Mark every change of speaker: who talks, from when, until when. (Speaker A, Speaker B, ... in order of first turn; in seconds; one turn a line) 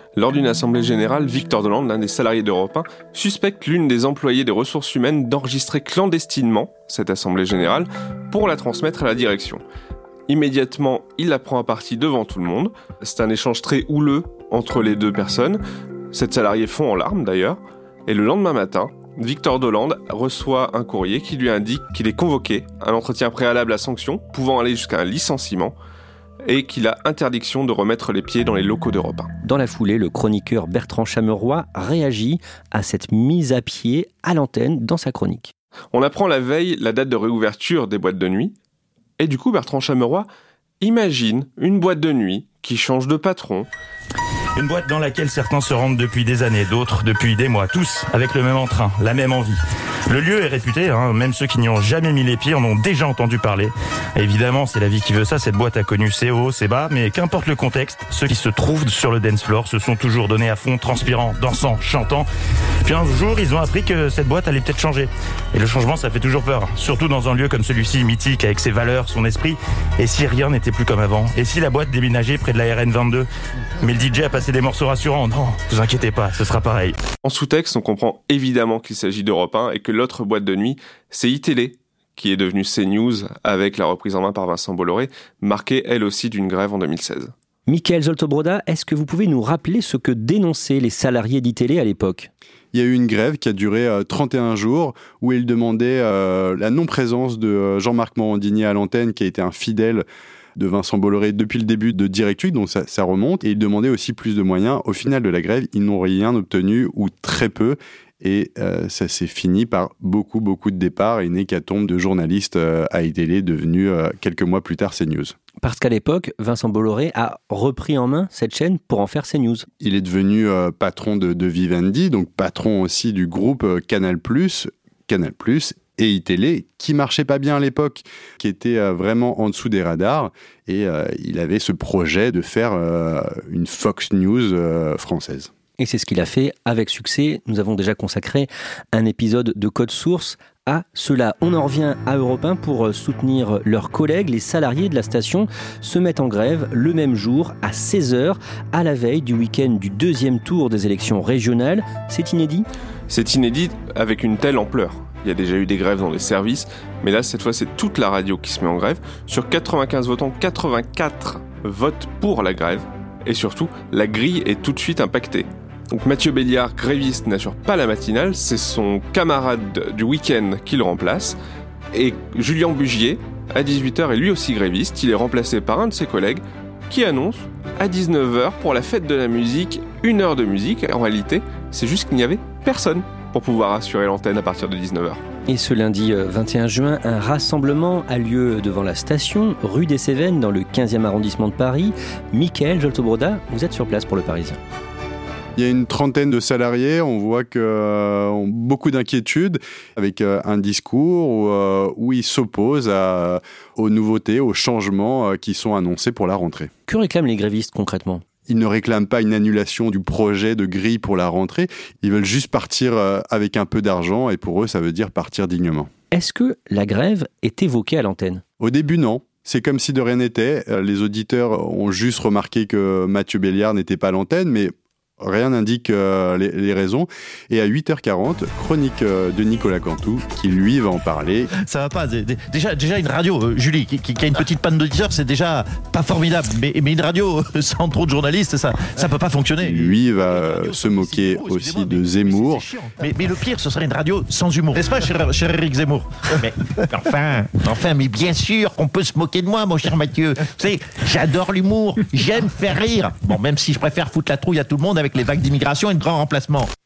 Speaker A: 0.2-9.6
Speaker A: 10.3-25.8
Speaker A: 26.4-29.3
Speaker B: 29.4-35.5
Speaker A: 35.9-38.5
Speaker A: 39.2-40.3
Speaker A: 40.8-43.7
Speaker C: 44.6-62.3
Speaker C: 62.8-73.3
Speaker C: 73.8-77.0
Speaker A: 77.2-87.3
Speaker B: 87.7-92.3
Speaker D: 92.7-100.0
Speaker D: 100.6-115.3
Speaker B: 115.6-119.7
Speaker D: 119.8-135.5
Speaker B: 135.8-152.7
Speaker A: 153.1-171.4
Speaker A: 171.9-185.2
Speaker B: 185.5-194.6
Speaker D: 195.6-206.7
Speaker B: 206.9-208.2
Speaker D: 208.5-215.9
Speaker B: 216.1-218.4
Speaker D: 218.6-231.5
Speaker E: 231.5-256.7
Speaker D: 239.6-242.7